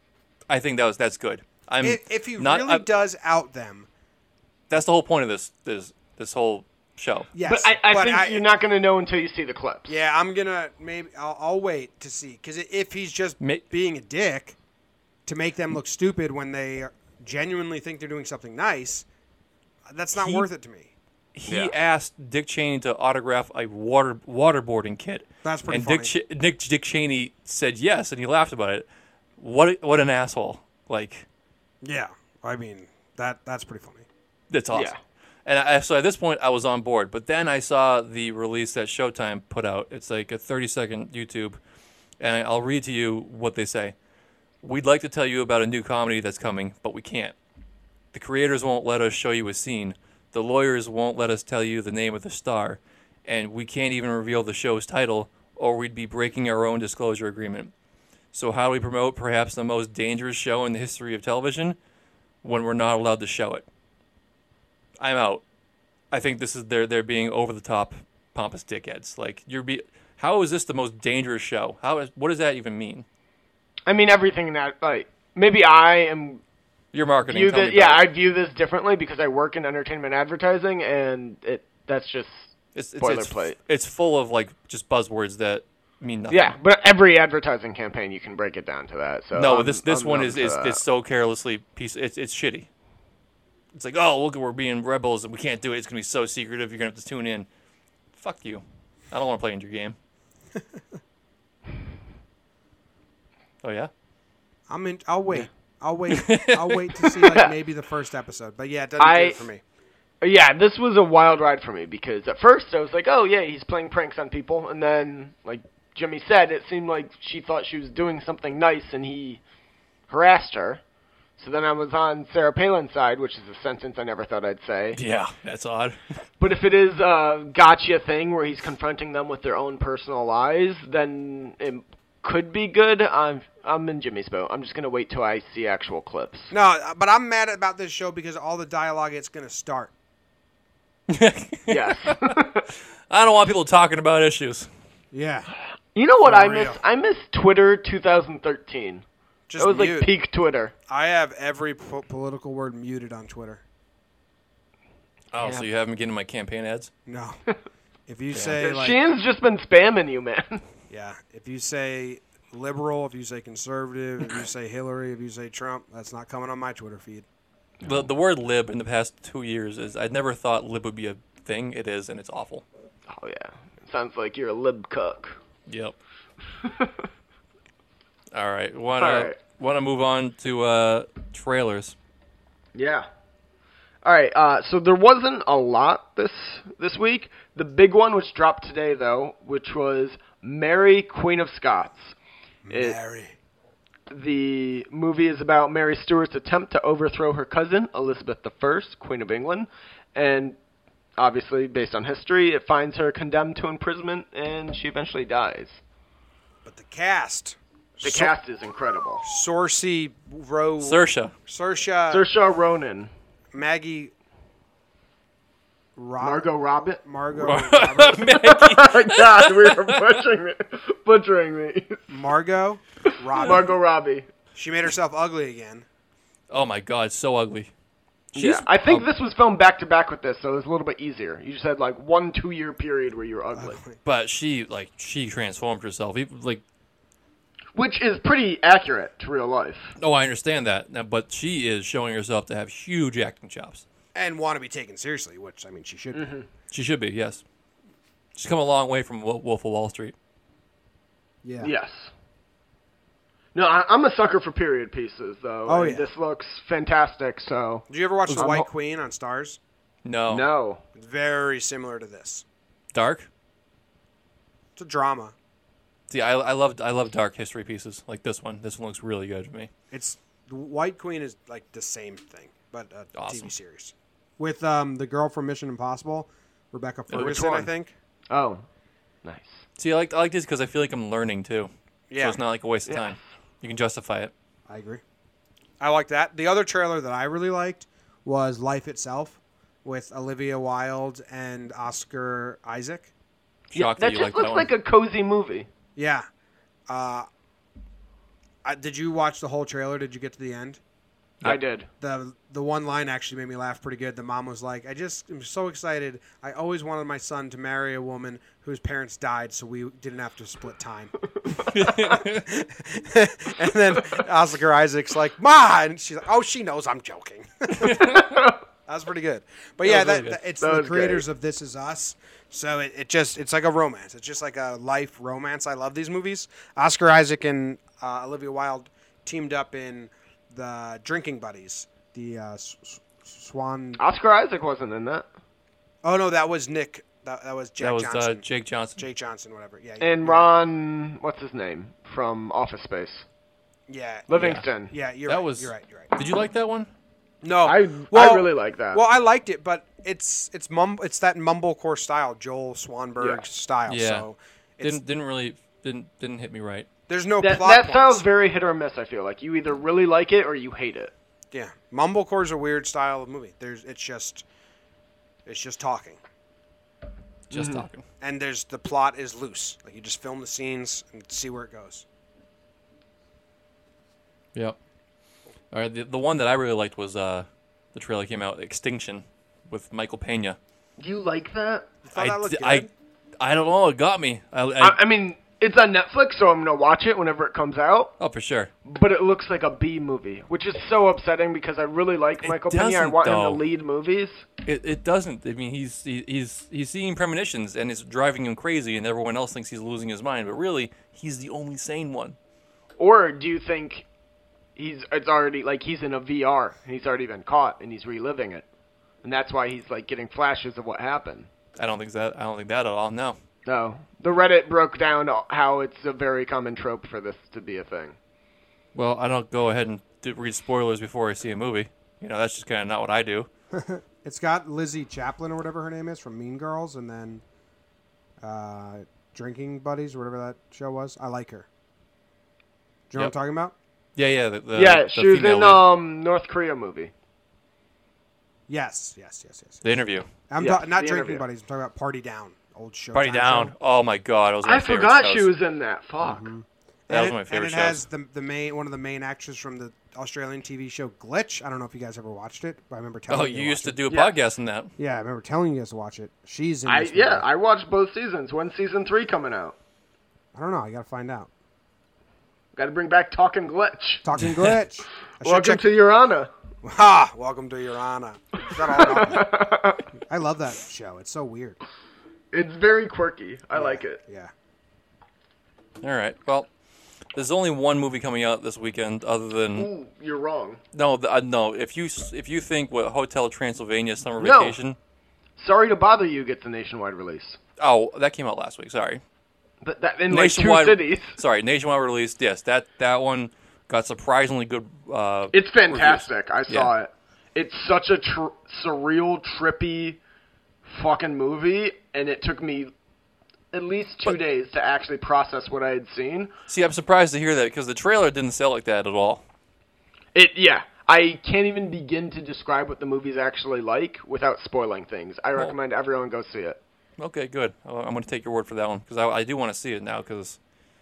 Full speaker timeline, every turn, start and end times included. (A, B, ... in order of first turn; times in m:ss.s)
0:00.5-0:02.9 A
0:01.8-0:03.9 B
0:04.7-0:07.3 A
0:07.3-0:08.4 B
0:07.4-0:10.0 C
0:09.9-0:14.6 B
0:15.2-0:19.0 B
0:19.9-0:20.9 B
0:20.1-0:20.5 A
0:21.3-0:28.8 A
0:21.5-0:21.7 C
0:25.4-0:26.1 B
0:29.4-0:31.2 A
0:31.8-0:34.0 B
0:34.5-0:34.9 A
0:34.7-0:35.0 C
0:35.4-0:41.6 A
0:42.2-0:43.9 A
0:44.6-0:47.3 A
0:48.1-0:57.7 A
0:58.3-1:01.8 A
1:02.4-1:03.6 A
1:05.0-1:05.4 A
1:06.1-1:13.0 A
1:13.9-1:16.4 C
1:16.9-1:18.0 A
1:17.3-1:23.6 C
1:22.7-1:26.6 A
1:26.3-1:30.8 C
1:29.3-1:32.7 A
1:33.7-1:37.5 A
1:38.1-1:40.0 A
1:43.6-1:43.9 A
1:44.7-1:49.6 B
1:46.1-1:47.1 A
1:47.2-1:47.5 C
1:49.0-1:49.4 C
1:50.2-1:59.4 C
2:00.1-2:00.8 C
2:01.4-2:05.0 C
2:04.9-2:06.0 A
2:06.4-2:16.5 C
2:16.5-2:19.9 B
2:21.1-2:22.3 A
2:21.7-2:22.7 C
2:23.1-2:24.7 A
2:25.1-2:25.5 B
2:25.9-2:29.0 C
2:26.2-2:26.8 B
2:29.5-2:30.1 B
2:29.6-2:30.7 C
2:30.9-2:33.6 B
2:35.3-2:36.9 A
2:35.4-2:35.7 C
2:37.1-2:37.4 B
2:38.1-2:39.0 B
2:38.3-2:38.6 A
2:38.6-2:40.6 C
2:40.9-2:47.2 B
2:47.8-2:52.6 A
2:53.1-2:55.4 C
2:55.7-2:56.0 A
2:56.6-2:57.0 C
2:58.3-3:02.0 A
2:59.0-2:59.4 C
3:02.7-3:03.0 C
3:04.0-3:12.1 C
3:12.6-3:13.3 B
3:12.7-3:13.0 C
3:14.1-3:20.6 C
3:21.2-3:25.8 C
3:26.6-3:28.3 B
3:28.0-3:29.2 C
3:29.2-3:32.2 B
3:30.8-3:31.3 A
3:32.1-3:33.1 C
3:33.5-3:34.1 B
3:36.0-3:36.5 B
3:36.2-3:37.0 C
3:37.0-3:38.3 B
3:37.4-3:40.0 A
3:38.3-3:42.1 C
3:42.1-3:43.7 B
3:43.1-3:44.3 C
3:44.5-3:45.8 B
3:46.5-3:47.7 A
3:48.3-3:49.0 A
3:48.3-3:53.8 C
3:53.5-3:54.0 B
3:54.0-3:56.6 A
3:57.7-3:59.9 C
4:00.0-4:03.8 A
4:04.1-4:06.3 B
4:06.1-4:06.4 C
4:06.7-4:07.4 A
4:08.3-4:10.1 A
4:11.4-4:11.7 B
4:11.6-4:12.1 C
4:13.5-4:18.6 C
4:15.7-4:16.1 B
4:17.9-4:19.6 B
4:18.3-4:18.6 A
4:20.0-4:20.4 A
4:20.3-4:20.8 C
4:21.0-4:22.4 B
4:22.9-4:23.3 A
4:24.8-4:25.3 B
4:26.1-4:29.7 A
4:29.9-4:37.9 B
4:33.1-4:33.5 A
4:37.1-4:37.7 C
4:38.3-4:38.6 C
4:39.2-4:39.6 C
4:39.8-4:44.3 A
4:42.1-4:42.4 B
4:42.9-4:43.2 C
4:44.7-4:45.0 B
4:45.8-4:53.1 B
4:53.7-4:54.7 A
4:53.7-4:55.7 C
4:56.0-4:56.2 B
4:56.9-4:57.3 B
4:58.6-5:00.8 B
5:01.4-5:01.9 C
5:02.0-5:11.1 B
5:11.5-5:12.5 A
5:12.2-5:18.1 B
5:17.8-5:18.4 A
5:18.0-5:18.6 C
5:18.9-5:34.0 B
5:19.8-5:20.4 A
5:20.1-5:21.2 C
5:34.0-5:35.2 C
5:36.0-5:38.4 B
5:37.8-5:39.0 A
5:39.0-5:40.5 B
5:40.0-5:43.2 C
5:43.9-5:44.3 B
5:44.3-5:44.9 C
5:44.3-5:44.6 A
5:44.9-5:46.1 B
5:45.2-5:46.9 A
5:47.4-5:55.0 B
5:47.6-5:49.0 C
5:53.2-5:53.4 C
5:53.9-5:54.3 A
5:54.8-5:56.9 A
5:57.1-5:58.2 B
5:57.4-6:01.1 C
6:01.5-6:04.4 B
6:05.4-6:06.2 B
6:07.5-6:08.0 A
6:07.5-6:07.8 C
6:08.2-6:12.0 B
6:15.7-6:20.6 A
6:21.0-6:21.9 C
6:22.0-6:22.9 B
6:22.1-6:22.9 A
6:23.4-6:25.0 A
6:24.8-6:28.1 C
6:28.2-6:28.7 A
6:28.8-6:34.4 C
6:32.4-6:33.6 A
6:34.6-6:42.4 A
6:43.0-6:44.0 C
6:44.8-6:48.6 C
6:49.2-6:51.5 C
6:51.8-6:53.4 A
6:53.6-6:58.2 C
6:58.9-7:03.5 A
7:03.7-7:07.4 B
7:08.4-7:11.7 B
7:13.1-7:13.7 B
7:14.2-7:15.8 A
7:14.7-7:17.1 C
7:18.7-7:19.8 B
7:19.8-7:20.3 A
7:20.5-7:23.7 B
7:20.6-7:21.4 C
7:23.1-7:25.5 A
7:24.6-7:26.5 C
7:26.2-7:34.0 B
7:27.1-7:28.0 A
7:33.3-7:34.9 A
7:35.0-7:37.5 B
7:36.8-7:39.7 C
7:40.5-7:41.5 B
7:42.8-7:44.2 C
7:44.2-7:45.8 B
7:44.4-7:44.7 A
7:45.4-7:46.5 C
7:46.8-7:49.5 B
7:48.7-7:50.0 C
7:50.2-7:51.8 B
7:52.5-7:54.2 C
7:53.7-7:54.5 B
7:56.0-7:56.7 A
7:57.3-7:59.9 A
7:59.8-8:00.8 C
8:00.9-8:05.0 A
8:04.4-8:04.8 C
8:05.6-8:07.6 C
8:07.8-8:09.2 A
8:09.8-8:11.4 C
8:10.3-8:16.9 A
8:15.5-8:20.2 C
8:20.9-8:22.9 C
8:23.7-8:26.5 C
8:26.7-8:29.4 A
8:30.3-8:36.8 C
8:37.2-8:40.6 A